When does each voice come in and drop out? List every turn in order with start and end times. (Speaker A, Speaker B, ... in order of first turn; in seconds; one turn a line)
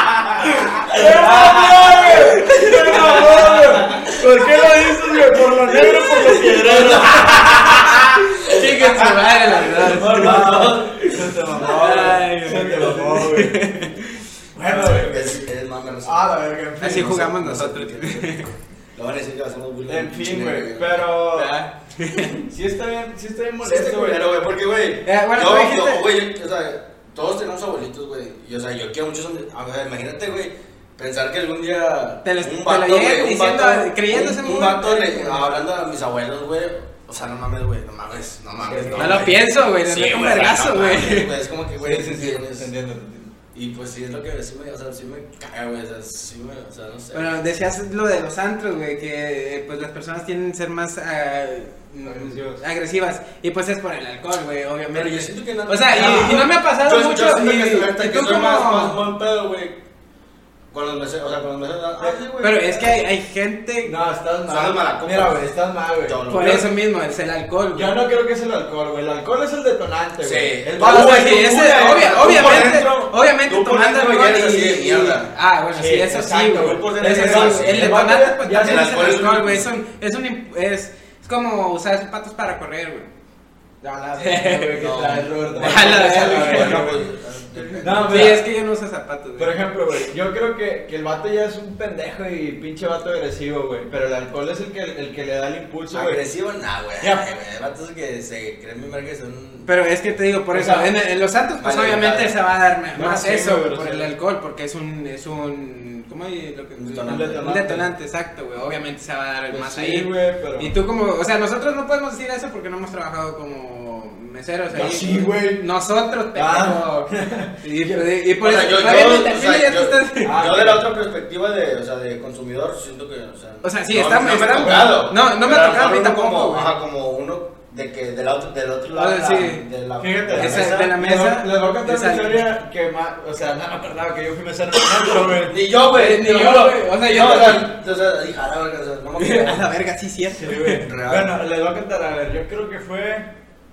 Speaker A: 0.4-8.1
Speaker B: 0.7-14.2
Speaker C: 1.9-4.1
Speaker C: 6.6-7.9
Speaker C: 8.4-12.1
Speaker A: 9.9-13.6
Speaker A: 14.6-15.4
Speaker C: 14.7-16.3
Speaker A: 16.1-17.3
Speaker B: 16.8-18.5
Speaker C: 17.1-21.2
Speaker A: 19.9-21.6
Speaker B: 21.4-22.4
Speaker A: 22.5-24.2
Speaker C: 23.6-42.7
Speaker B: 25.1-26.0
Speaker B: 32.2-35.6
Speaker A: 38.6-39.3
Speaker B: 38.9-41.3
Speaker A: 41.8-43.3
Speaker C: 43.5-47.3
Speaker B: 47.1-59.0
Speaker A: 52.0-52.6
Speaker C: 54.9-59.8
Speaker A: 55.9-56.5
Speaker C: 60.7-63.1
Speaker B: 62.4-63.9
Speaker A: 63.8-66.2
Speaker C: 64.5-65.4
Speaker C: 66.0-66.7
Speaker B: 66.3-67.9
Speaker A: 67.7-71.4
Speaker C: 70.2-75.3
Speaker B: 70.8-83.1
Speaker A: 75.8-79.0
Speaker C: 76.6-78.0
Speaker C: 78.5-79.7
Speaker A: 83.8-87.0
Speaker B: 83.9-87.0
Speaker C: 84.8-88.4
Speaker A: 87.6-88.4
Speaker B: 88.0-89.6
Speaker A: 89.4-96.3
Speaker C: 95.9-99.7
Speaker A: 97.0-97.3
Speaker B: 99.7-120.4
Speaker A: 100.5-100.9
Speaker C: 101.6-102.3
Speaker A: 102.9-104.1
Speaker C: 106.8-107.5
Speaker A: 107.0-107.9
Speaker A: 109.5-110.7
Speaker A: 114.7-115.7
Speaker A: 116.3-118.0
Speaker C: 118.4-131.0
Speaker A: 120.2-120.9
Speaker B: 123.6-126.7
Speaker A: 124.6-124.9
Speaker B: 128.9-129.7
Speaker A: 130.0-135.6
Speaker B: 130.4-132.4
Speaker C: 135.5-139.7
Speaker B: 135.8-137.7
Speaker B: 139.2-140.8
Speaker A: 140.3-143.3
Speaker C: 140.6-141.3